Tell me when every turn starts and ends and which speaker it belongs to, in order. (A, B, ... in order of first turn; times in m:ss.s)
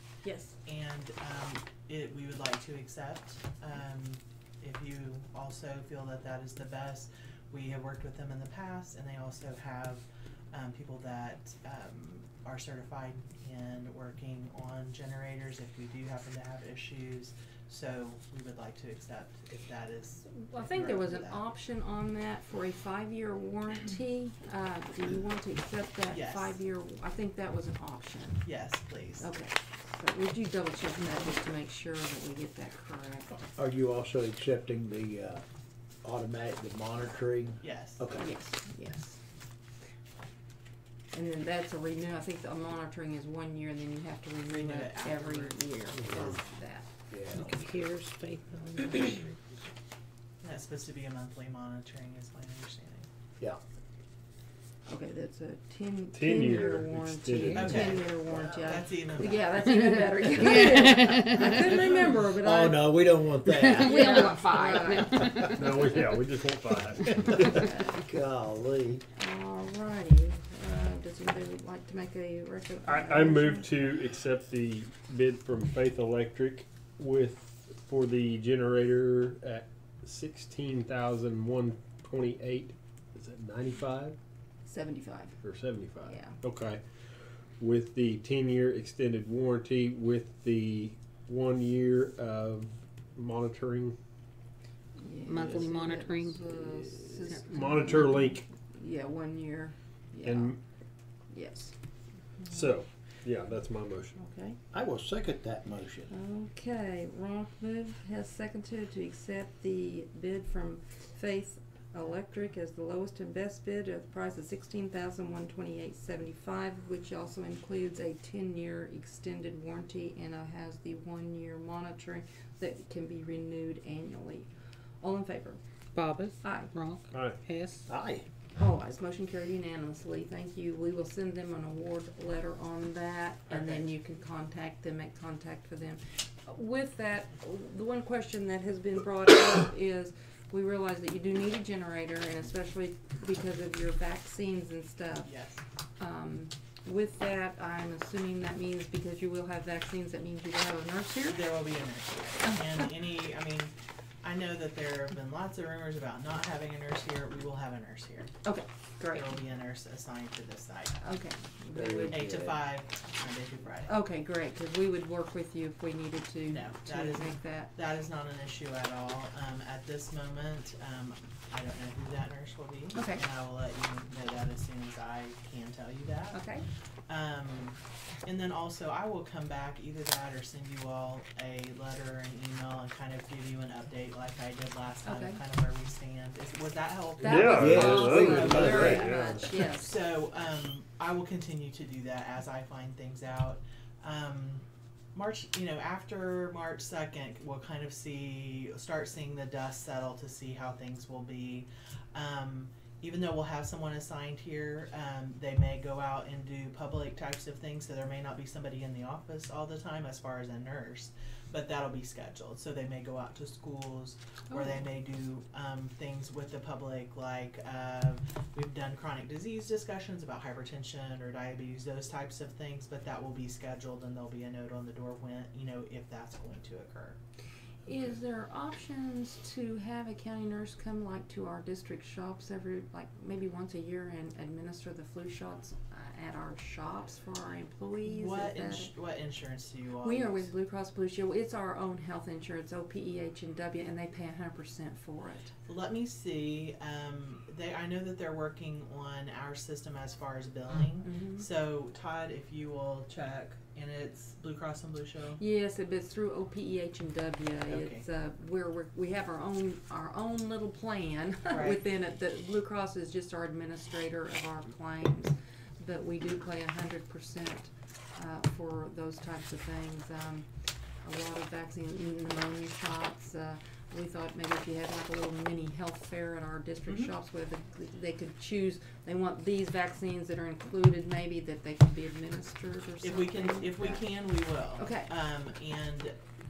0:00.2-0:00.5 A
0:00.6-0:21.4 B
0:20.4-0:28.4 A
0:26.1-0:26.5 B
0:28.4-0:29.3 B
0:29.2-0:33.3 A
0:33.6-0:35.4 C
0:36.0-0:38.3 C
0:37.6-0:38.0 B
0:38.2-0:39.2 A
0:41.1-0:46.9 A
0:44.5-0:45.6 B
0:45.9-0:46.4 C
0:47.1-0:47.8 C
0:47.3-0:49.3 D
0:50.4-0:53.1 B
0:54.9-1:03.0 A
0:56.1-0:57.8 E
0:57.4-0:57.8 D
0:57.6-0:59.9 B
0:57.6-0:59.0 C
1:00.4-1:01.6 D
1:01.5-1:05.5 C
1:03.6-1:05.8 D
1:03.6-1:05.4 A
1:05.5-1:07.7 E
1:07.3-1:09.0 C
1:07.6-1:08.0 A
1:09.1-1:13.7 A
1:12.8-1:24.2 E
1:24.6-1:25.4 A
1:25.4-1:26.8 E
1:26.0-1:26.4 A
1:27.6-1:34.0 E
1:35.0-1:40.6 A
1:35.2-1:36.6 D
1:37.3-1:38.4 E
1:40.2-1:40.6 E
1:41.3-1:41.7 A
1:42.5-1:44.2 E
1:44.2-1:44.6 A
1:44.7-1:46.1 C
1:46.1-2:04.5 A
2:05.0-2:05.6 A
2:05.9-2:07.9 D
2:06.4-2:06.7 A
2:07.1-2:08.2 E
2:08.6-2:25.3 A
2:13.5-2:13.8 B
2:25.2-2:25.6 B
2:26.0-2:31.5 A
2:31.3-2:38.3 B
2:38.4-2:39.3 A
2:39.1-2:41.0 B
2:41.0-2:42.4 A
2:41.7-2:42.6 C
2:42.1-2:43.9 B
2:43.8-2:47.7 A
2:46.5-2:56.4 B
2:52.9-2:53.2 A
2:56.3-2:56.6 A
2:57.1-3:47.2 B
3:05.0-3:05.4 A
3:07.2-3:10.0 A
3:07.2-3:09.5 E
3:07.5-3:09.1 C
3:34.5-3:34.8 A
3:47.9-3:58.9 A
3:58.0-4:00.5 B
4:00.0-4:05.5 A
4:05.7-4:15.4 B
4:11.0-4:11.5 A
4:15.4-4:30.4 A
4:17.7-4:18.0 B
4:21.5-4:21.8 B
4:31.0-4:44.1 A
4:43.0-4:46.1 B
4:44.8-4:45.1 A